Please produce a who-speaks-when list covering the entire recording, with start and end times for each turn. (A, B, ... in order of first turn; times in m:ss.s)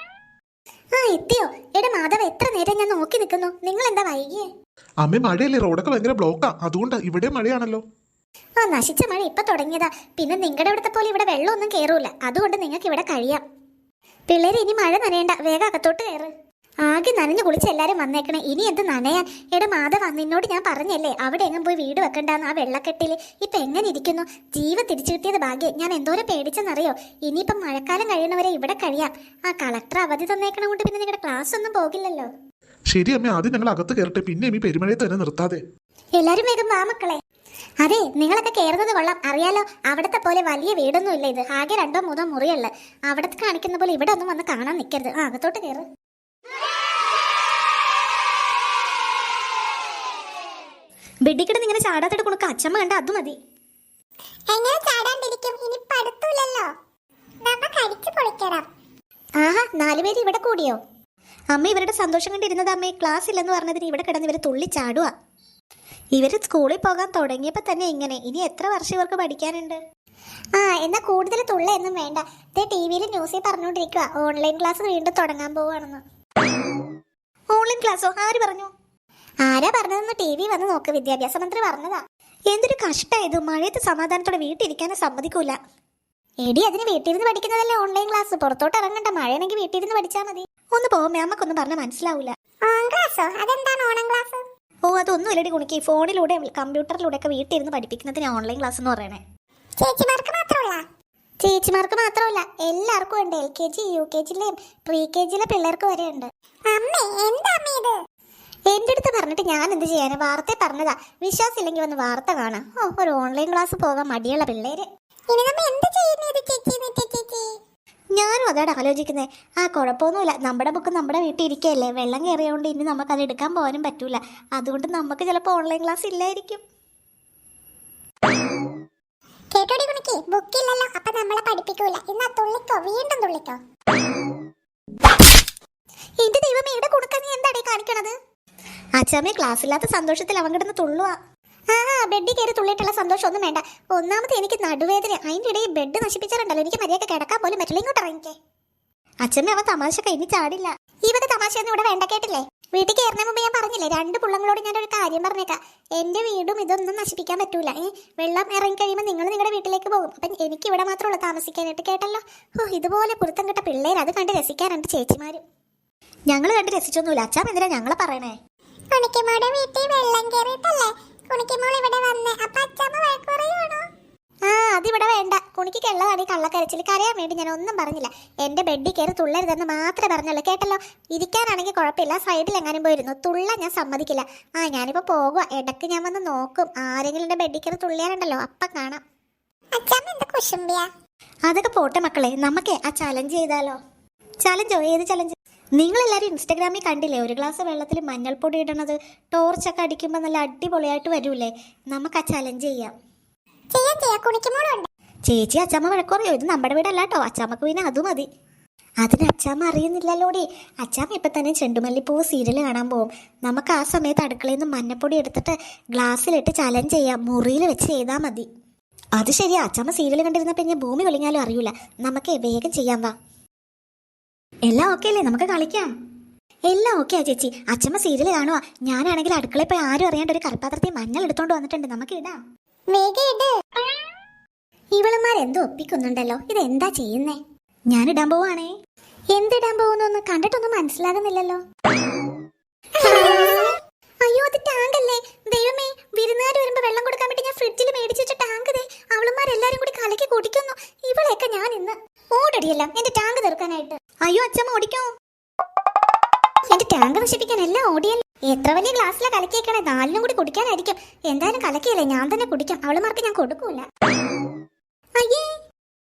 0:00.9-0:04.5 A
0:05.0-0:07.8 B
0:08.6-0:13.4 A
0:14.3-0:16.3 A
0:16.8-0:32.3 A
0:32.9-0:35.6 B
0:36.2-0:37.2 A
0:37.8-0:45.8 A
0:51.3-0:53.3 A
0:54.5-0:56.7 C
0:57.4-0:58.6 C
0:59.4-1:00.8 A
1:01.6-1:05.0 A
1:06.2-1:09.8 A
1:10.6-1:16.0 A
1:17.6-1:18.7 A
1:19.4-1:25.5 A
1:26.4-1:32.3 A
1:32.6-1:34.4 C
1:34.9-1:39.1 A
1:39.8-1:40.8 C
1:41.4-1:46.3 A
1:46.7-1:48.0 C
1:48.7-1:54.8 A
1:55.3-1:57.5 C
1:58.2-2:06.6 A
2:09.5-2:13.6 C
2:16.2-2:18.1 A
2:19.0-2:21.1 A
2:21.7-2:28.3 A
2:29.2-2:45.4 A
2:46.3-2:48.0 A
2:48.9-2:53.8 C
2:54.4-3:09.0 A
3:09.7-3:10.9 C
3:11.5-3:13.7 A
3:14.5-3:15.2 A
3:15.8-3:22.9 A
3:23.7-3:24.9 C
3:25.6-3:28.2 A
3:29.8-3:38.4 A
3:39.2-3:43.1 A
3:44.7-3:45.9 A
3:47.0-3:52.4 A
3:52.9-3:53.6 C
3:54.9-3:57.4 A
3:58.0-3:58.6 A
3:59.3-4:01.6 A
4:03.0-4:15.0 A
4:03.1-4:03.6 C
4:16.7-4:23.8 A
4:25.2-4:25.5 A